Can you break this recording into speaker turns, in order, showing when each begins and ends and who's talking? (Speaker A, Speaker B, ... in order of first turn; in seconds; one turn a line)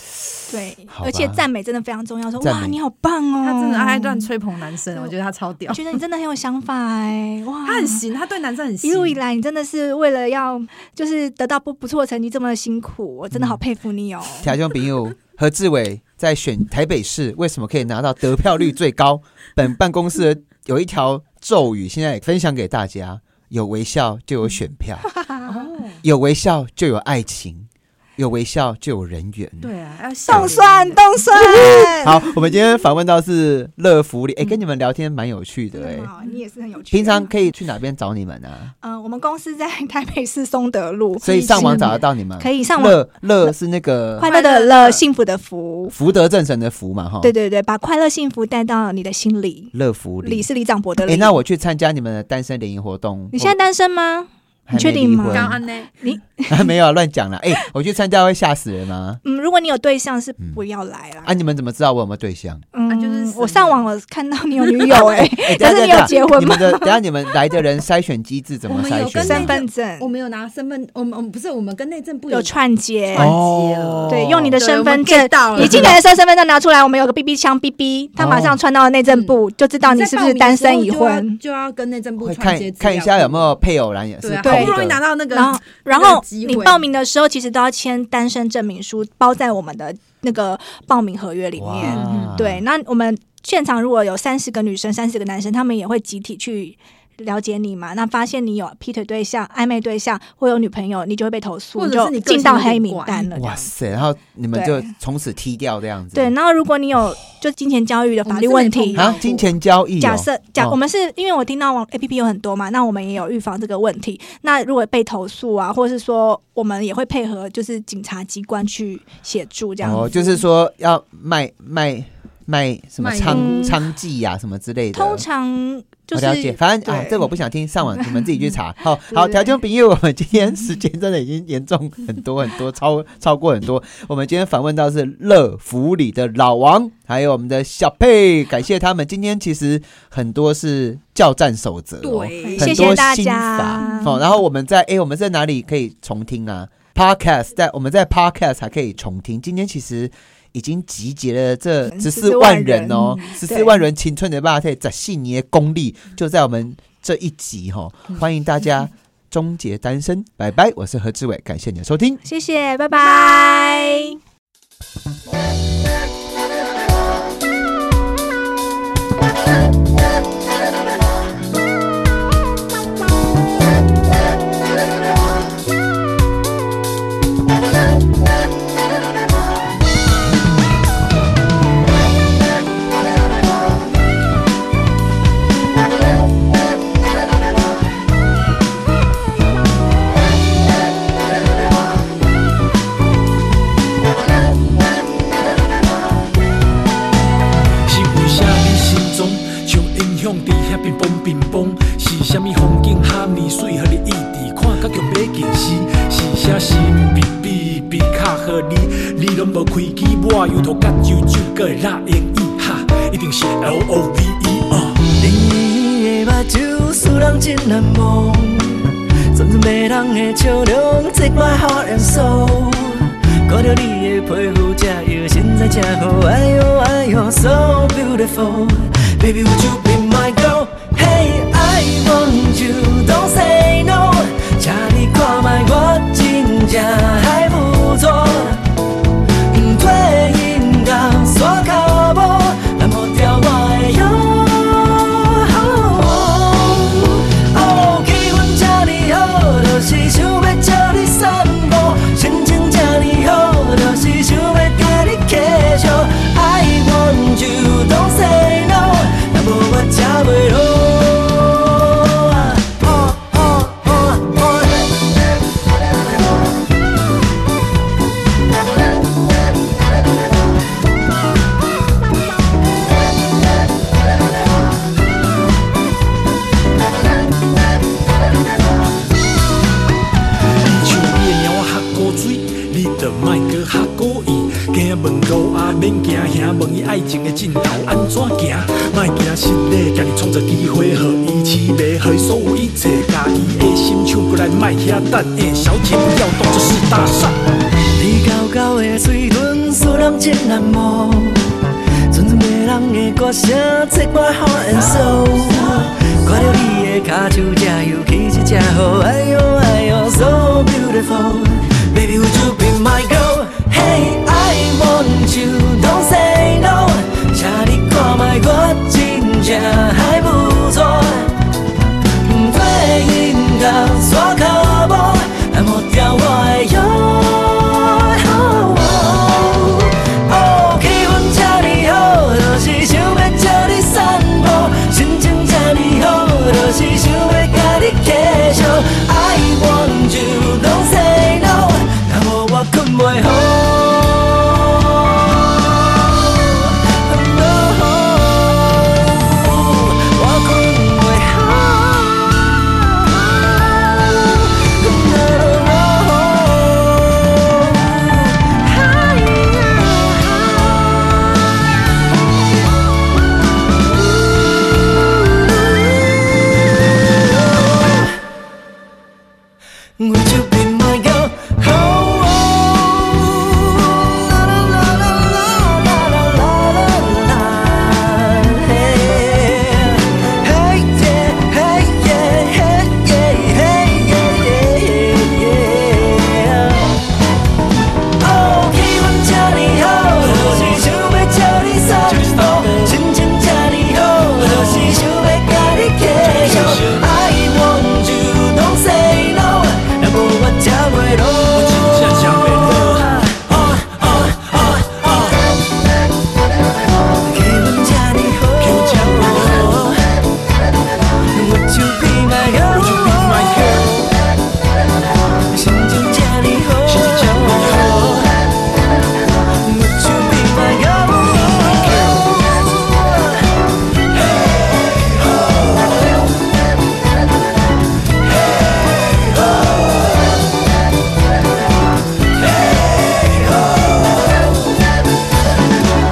Speaker A: 0.5-4.3
Speaker B: 0.9-1.4
Speaker B: 2.4-2.8
Speaker C: 3.4-6.0
Speaker A: 5.7-8.1
Speaker C: 7.7-9.2
Speaker A: 8.8-14.5
Speaker B: 13.3-13.6
Speaker B: 14.3-25.1
Speaker C: 25.5-26.0
Speaker B: 26.0-29.7
Speaker C: 29.6-31.8
Speaker B: 30.3-30.6
Speaker A: 30.3-32.4
Speaker B: 31.4-36.1
Speaker A: 35.7-37.3
Speaker B: 36.9-38.7
Speaker A: 38.8-43.5
Speaker B: 41.2-44.3
Speaker C: 41.2-42.0
Speaker A: 44.2-46.0
Speaker C: 44.2-45.0
Speaker B: 45.9-47.3
Speaker A: 47.2-51.4
Speaker B: 49.7-50.5
Speaker B: 51.0-53.6
Speaker A: 53.3-56.7
Speaker B: 54.7-55.6
Speaker C: 55.3-55.9
Speaker B: 56.5-59.2
Speaker A: 59.2-61.3
Speaker B: 61.2-62.7
Speaker A: 62.7-67.0
Speaker C: 62.9-63.8
Speaker B: 64.9-69.6
Speaker C: 65.6-66.5
Speaker C: 68.7-72.5
Speaker A: 69.2-70.1
Speaker A: 72.3-73.3
Speaker C: 73.1-76.0
Speaker B: 73.2-74.6
Speaker A: 74.1-81.4
Speaker B: 75.6-75.9
Speaker B: 78.2-78.6
Speaker C: 79.1-83.6
Speaker B: 82.2-85.0
Speaker C: 84.2-86.9
Speaker A: 84.4-103.7
Speaker B: 91.6-92.6
Speaker C: 91.8-92.4
Speaker C: 101.8-103.3
Speaker B: 103.3-106.3
Speaker A: 104.5-104.9
Speaker A: 106.1-109.2
Speaker C: 108.2-109.5
Speaker B: 109.0-110.8
Speaker A: 110.0-120.4
Speaker B: 119.8-125.2
Speaker C: 123.0-123.8
Speaker A: 123.3-123.7
Speaker A: 124.9-127.3
Speaker B: 126.1-162.2
Speaker A: 127.9-128.3
Speaker A: 129.1-129.4
Speaker C: 142.0-143.1
Speaker A: 142.4-144.2
Speaker C: 143.8-144.1
Speaker A: 151.9-153.8
Speaker A: 162.2-164.2
Speaker D: 197.9-215.1
Speaker E: 215.1-238.7
Speaker E: 239.5-264.9
Speaker D: 280.6-297.4
Speaker E: 297.9-301.5
Speaker E: 302.1-321.4
Speaker E: 322.2-361.9
Speaker E: 363.8-366.3
Speaker E: 367.0-368.2
Speaker E: 370.0-387.0
Speaker E: 388.2-405.4
Speaker D: 390.2-390.9
Speaker D: 392.1-393.0
Speaker D: 394.4-395.0
Speaker D: 396.2-397.1
Speaker D: 401.5-405.4
Speaker E: 407.2-410.0
Speaker D: 408.6-409.9
Speaker E: 411.3-414.0
Speaker D: 412.7-414.1
Speaker E: 415.5-418.3
Speaker D: 416.9-418.3
Speaker E: 419.6-423.5
Speaker D: 421.5-422.3
Speaker E: 424.2-425.9
Speaker E: 428.7-429.7
Speaker E: 433.0-433.7